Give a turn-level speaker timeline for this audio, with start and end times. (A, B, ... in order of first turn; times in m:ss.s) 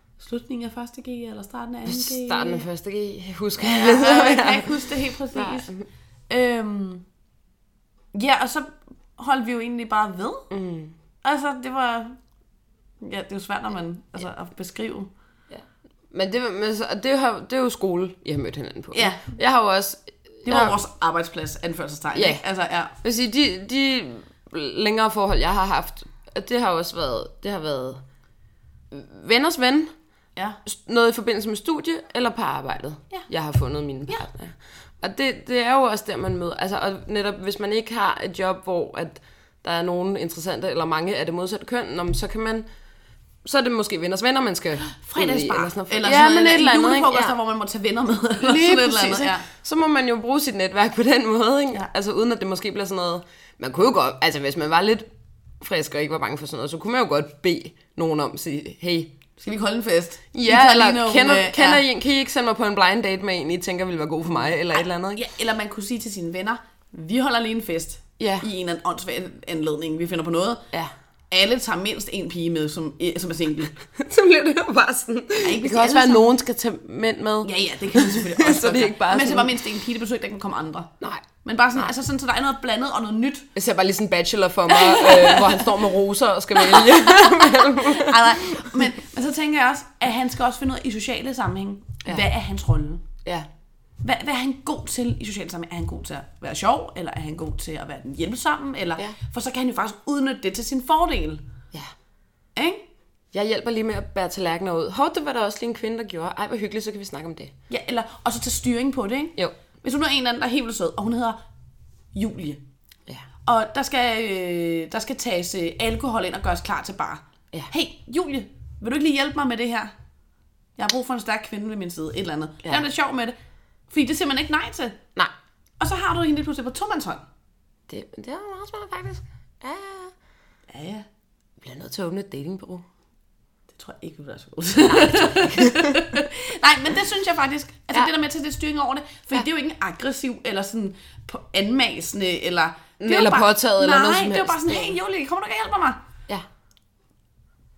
0:00.2-0:02.6 A
0:01.9-0:05.9 B
0:03.6-0:05.7 A
0:06.3-0:07.0 A
0:08.1-0:10.5 A
0:10.5-0:11.0 B
0:11.2-0:12.2 A
0:13.0-0:15.1 A
0:15.5-0:20.8 B
0:18.9-0:19.3 A
0:20.5-0:22.9 A
0:22.2-0:22.4 B
0:23.0-0:28.0 B
0:28.9-0:29.9 B
0:30.6-0:42.7 B
0:43.4-0:47.4 B
0:44.8-0:49.5 A
0:48.4-0:55.1 B
0:55.6-0:59.2 B
0:59.4-1:01.8 A
1:00.3-1:05.2 B
1:04.7-1:10.6 A
1:08.2-1:08.5 B
1:11.3-1:13.8 A
1:13.9-1:19.6 B
1:15.4-1:16.3 A
1:17.4-1:20.9 A
1:21.0-1:21.3 B
1:21.4-1:23.5 A
1:23.6-1:28.7 B
1:24.7-1:25.8 A
1:26.6-1:33.0 A
1:34.0-1:41.4 A
1:42.6-1:42.8 A
1:43.3-1:47.5 B
1:47.7-1:51.4 A
1:52.1-1:52.6 A
1:53.5-1:59.9 A
2:00.8-2:03.4 A
2:03.9-2:05.0 A
2:05.8-2:07.2 A
2:07.9-2:10.1 B
2:10.7-2:11.1 A
2:11.6-2:12.9 B
2:13.7-2:26.0 A
2:14.9-2:16.2 B
2:23.0-2:25.0 B